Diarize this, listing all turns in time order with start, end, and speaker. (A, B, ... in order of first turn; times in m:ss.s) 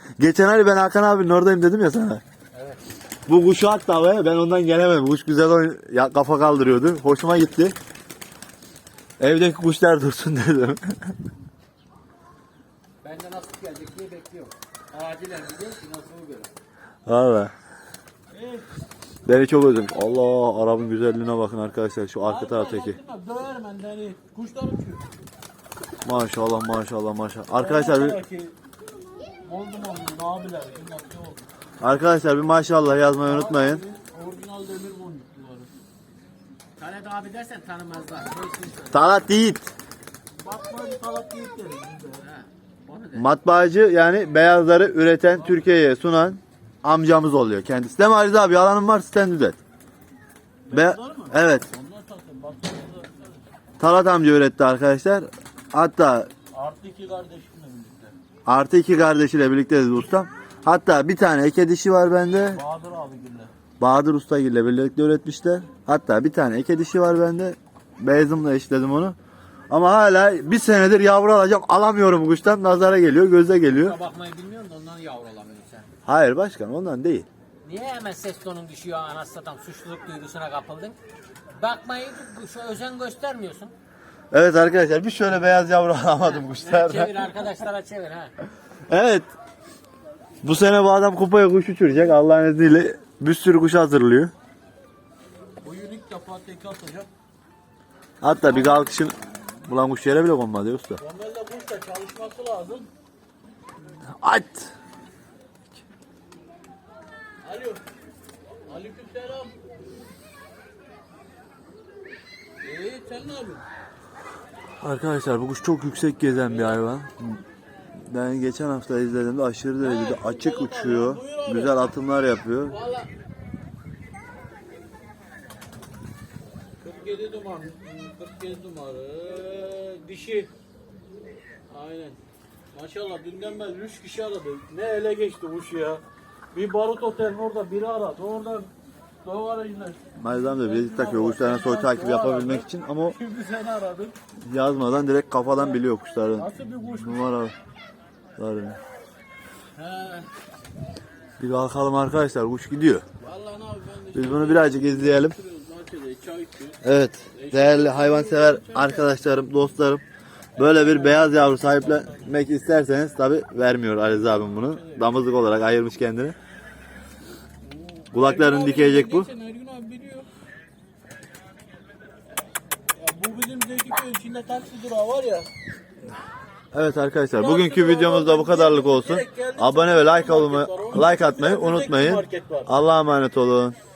0:00.2-0:02.2 A
0:02.5-0:02.8 B
0:03.3-0:07.7 A
0:09.2-0:11.1 A
0:13.0-0:16.5 B
0:17.0-0:17.5 A
0:18.3-0:18.7 C
0:19.2-0:23.0 A
0:22.2-0:25.0 C
0:26.0-0:28.2 A
0:27.5-0:28.5 C
0:29.4-0:31.4 C
0:31.8-0:33.8 A
0:33.2-0:35.7 C
0:36.8-0:39.1 B
0:38.9-0:39.7 A
0:40.4-0:42.2 C
0:42.2-0:43.3 B
0:43.1-0:49.6 A
0:45.3-0:45.7 C
0:50.7-0:53.5 C
0:50.7-0:51.6 A
0:53.8-0:56.3 A
0:56.5-0:58.1 C
0:58.4-1:02.6 A
1:02.5-1:03.5 C
1:03.8-1:09.2 A
1:09.7-1:13.9 A
1:13.7-1:15.8 B
1:16.0-1:17.2 A
1:17.6-1:21.0 B
1:21.5-1:23.7 B
1:24.3-1:27.3 A
1:26.2-1:28.3 B
1:28.9-1:29.3 A
1:30.4-1:34.3 A
1:35.6-1:37.1 C
1:38.2-1:41.0 A
1:38.3-1:39.0 C
1:41.0-1:42.9 C
1:44.2-1:44.7 A
1:47.4-1:47.8 C
1:48.7-1:49.5 C
1:52.6-1:53.6 C
1:54.8-1:57.4 A
1:56.4-1:56.8 C
1:58.1-2:02.8 A
1:59.8-2:01.9 C
2:02.6-2:03.1 C
2:06.8-2:10.5 C
2:11.7-2:12.2 C
2:12.7-2:16.0 C
2:16.5-2:18.7 C
2:19.2-2:24.2 C
2:20.2-2:23.2 A
2:24.5-2:27.5 A
2:25.5-2:25.8 C
2:26.3-2:27.2 C
2:28.4-2:28.8 A
2:29.8-2:30.2 C
2:31.4-2:33.0 A
2:33.2-2:36.8 C
2:34.1-2:35.4 A
2:36.8-2:40.0 A
2:37.3-2:39.2 C
2:40.6-2:42.3 C
2:40.6-2:46.4 A
2:44.0-2:45.2 C
2:47.6-2:50.2 C
2:48.1-2:49.3 A
2:53.0-2:55.5 C
2:56.7-3:03.8 A
2:57.4-3:02.7 C